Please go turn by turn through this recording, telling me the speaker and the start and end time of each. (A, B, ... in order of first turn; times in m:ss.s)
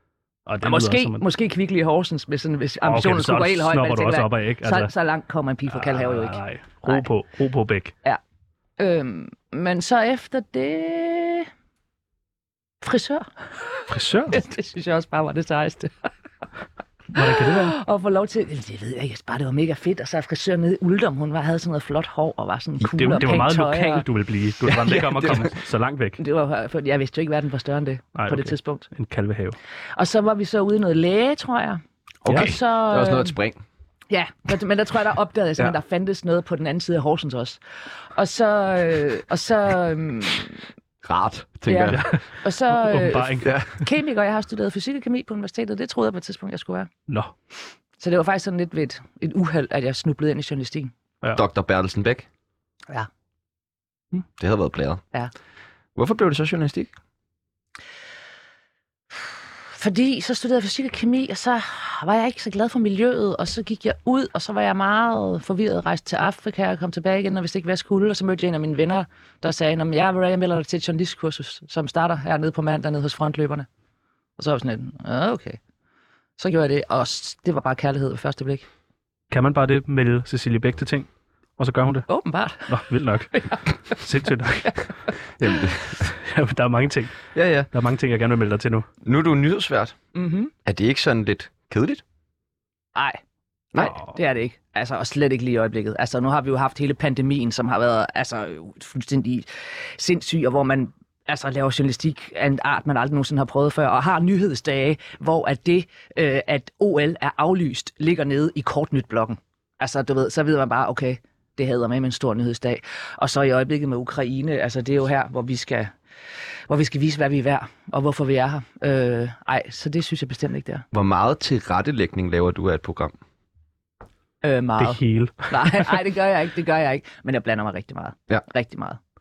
0:00.4-0:01.2 A
0:00.6-0:07.1 B
0:02.8-0:04.9 A
0:05.7-0:07.9 A
0:08.8-0:11.5 B
0:12.8-0:16.1 B
0:13.9-0:14.4 A
0:17.1-0:17.7 A
0:17.1-0:24.0 B
0:23.0-0:26.2 A
0:23.0-0:23.2 C
0:24.7-0:25.5 C
0:26.2-0:28.9 B
0:28.2-0:29.6 A
0:30.0-0:33.3 B
0:32.2-0:33.6 C
0:34.1-0:37.6 B
0:38.1-0:40.6 B
0:41.0-0:42.1 C
0:41.7-0:46.9 B
0:41.9-0:43.5 A
0:43.4-0:43.8 C
0:47.1-0:47.3 A
0:48.0-0:50.9 B
0:51.3-0:52.2 C
0:54.4-0:55.0 C
0:55.9-0:56.9 C
0:59.7-1:13.7 B
1:14.4-1:15.6 B
1:16.4-1:18.7 B
1:19.3-1:22.1 A
1:22.1-1:22.7 B
1:22.6-1:24.8 A
1:23.3-1:23.6 B
1:25.4-1:26.1 C
1:26.2-1:27.1 A
1:27.3-1:27.7 C
1:27.7-1:28.9 A
1:29.0-1:29.9 C
1:30.1-1:30.5 B
1:30.6-1:32.0 C
1:33.8-1:55.9 B
1:56.7-2:00.8 B
2:00.9-2:03.1 C
2:04.4-2:09.0 B
2:04.8-2:05.9 A